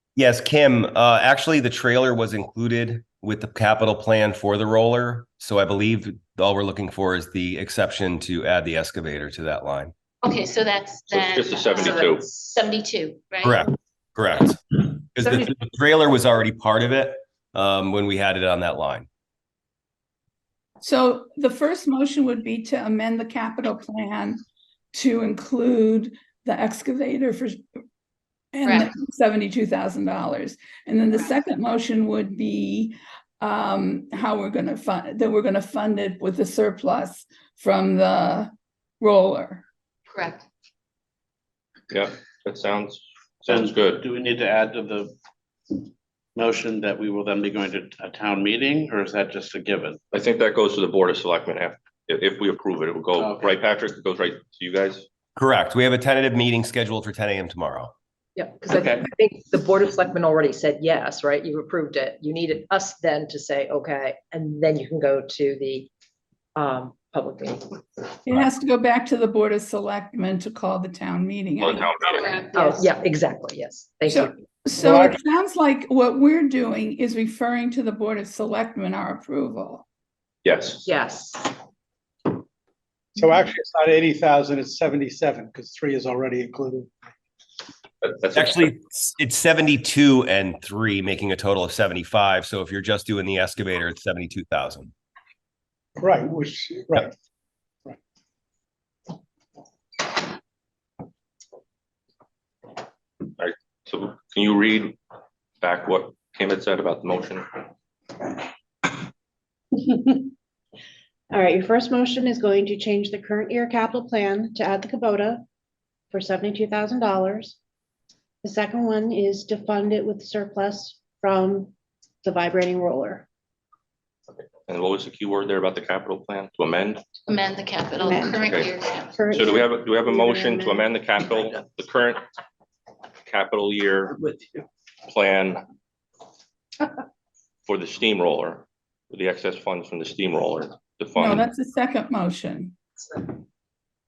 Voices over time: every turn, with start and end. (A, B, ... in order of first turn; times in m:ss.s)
0:00.2-0:09.9 A
0:10.2-0:13.6 B
0:11.1-0:12.3 C
0:13.4-0:19.1 A
0:20.8-0:24.4 D
0:24.9-0:27.6 D
0:28.5-0:39.6 D
0:41.9-0:44.1 C
0:43.5-0:45.2 E
0:46.4-0:50.0 E
0:50.1-0:55.1 C
0:53.2-0:53.6 E
0:55.4-0:57.9 A
0:58.4-1:05.9 F
1:06.6-1:07.6 F
1:08.3-1:12.0 D
1:11.6-1:12.5 C
1:12.2-1:12.6 B
1:12.5-1:14.3 F
1:14.1-1:19.8 D
1:14.8-1:15.2 G
1:20.4-1:20.9 C
1:20.8-1:21.5 F
1:23.2-1:26.9 G
1:28.0-1:28.7 C
1:28.4-1:34.9 A
1:36.0-1:37.1 G
1:43.4-1:45.0 C
1:45.6-1:47.6 C
1:51.3-1:55.4 H
1:56.1-1:57.6 H
1:58.4-2:01.7 H
2:02.2-2:03.3 H
2:04.7-2:07.1 C
2:07.3-2:09.2 B
2:08.0-2:10.9 H
2:08.4-2:08.7 C
2:09.3-2:12.2 C
2:13.3-2:14.2 C
2:15.1-2:15.6 C
2:17.7-2:21.5 C
2:21.2-2:22.8 D